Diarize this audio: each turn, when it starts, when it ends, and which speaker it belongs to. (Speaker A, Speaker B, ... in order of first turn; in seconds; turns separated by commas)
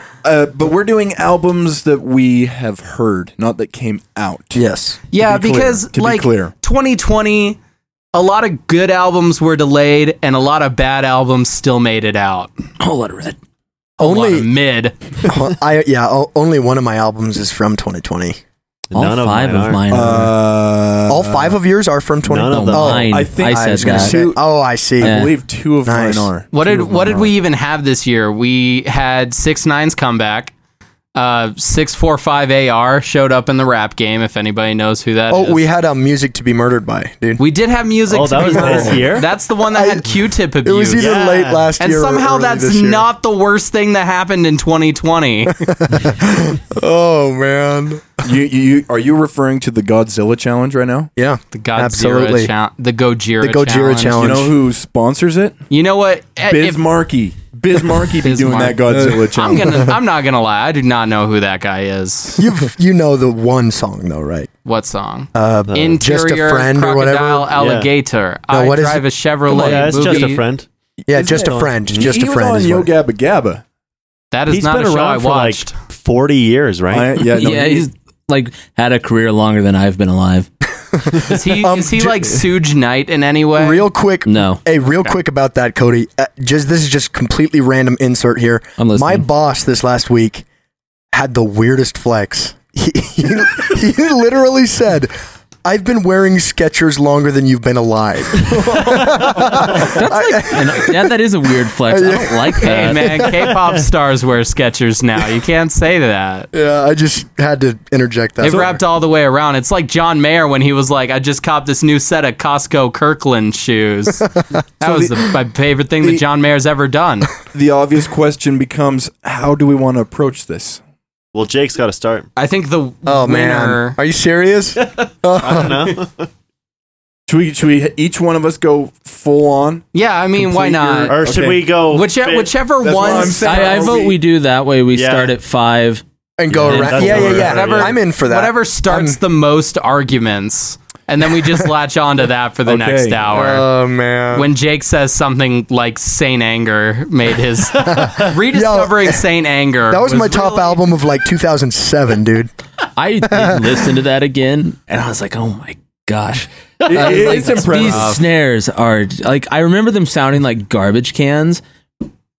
Speaker A: 0.2-4.6, Speaker B: 4.5-5.0, Speaker C: 5.1-7.6, Speaker A: 5.2-6.5, Speaker C: 8.1-12.5, Speaker D: 12.8-13.4, Speaker C: 14.0-14.9, Speaker B: 14.0-14.5, Speaker B: 15.2-18.4, Speaker E: 18.9-19.8, Speaker D: 18.9-20.4, Speaker A: 19.9-21.6, Speaker B: 21.1-25.3, Speaker E: 22.2-23.1, Speaker D: 22.5-24.2, Speaker A: 23.1-24.4, Speaker A: 25.0-27.3, Speaker D: 25.0-25.3, Speaker B: 25.8-26.3, Speaker C: 26.5-30.5, Speaker C: 31.1-35.6, Speaker B: 35.3-37.4, Speaker C: 37.4-41.0, Speaker E: 38.1-39.3, Speaker A: 38.5-38.9, Speaker B: 39.7-43.1, Speaker E: 41.0-41.7, Speaker C: 41.8-45.6, Speaker B: 45.6-48.1, Speaker A: 48.2-51.1, Speaker B: 51.2-52.5, Speaker C: 51.5-54.4, Speaker B: 53.4-54.5, Speaker A: 54.2-55.6, Speaker C: 55.7-56.8, Speaker A: 56.4-59.9, Speaker C: 58.2-62.5, Speaker B: 62.4-64.5, Speaker C: 64.7-70.4, Speaker B: 65.3-67.5, Speaker E: 65.7-66.0, Speaker E: 67.6-67.9, Speaker B: 68.5-70.0, Speaker E: 69.5-70.7, Speaker B: 71.1-72.9, Speaker A: 71.1-73.6, Speaker C: 74.3-75.7, Speaker E: 74.5-77.1, Speaker A: 76.9-77.8, Speaker D: 77.3-80.5, Speaker B: 81.0-82.4, Speaker C: 81.2-83.8, Speaker B: 83.6-90.4, Speaker D: 84.2-84.6, Speaker D: 88.8-89.2, Speaker B: 91.1-95.1, Speaker B: 95.7-101.1, Speaker A: 98.7-99.7, Speaker D: 99.7-103.3, Speaker B: 101.9-103.5, Speaker C: 102.6-106.5, Speaker B: 106.5-108.8, Speaker C: 108.4-114.3, Speaker C: 114.8-117.3, Speaker A: 114.8-115.2, Speaker A: 117.5-120.8, Speaker E: 121.3-122.3, Speaker C: 122.3-124.0, Speaker B: 123.1-125.9, Speaker E: 125.3-126.3, Speaker A: 127.3-129.8, Speaker C: 129.9-131.1, Speaker A: 130.3-131.7, Speaker E: 131.1-133.3, Speaker C: 131.9-133.8, Speaker A: 132.8-134.2, Speaker D: 133.4-137.5, Speaker E: 134.9-135.3, Speaker B: 136.4-139.2, Speaker E: 136.6-137.9, Speaker C: 137.5-143.7, Speaker A: 142.7-143.3, Speaker B: 143.3-144.5, Speaker C: 144.3-150.8, Speaker E: 147.8-148.3, Speaker B: 147.8-149.2, Speaker B: 149.9-152.5, Speaker D: 152.9-161.6, Speaker B: 153.3-153.6, Speaker A: 156.8-158.2, Speaker C: 157.0-158.2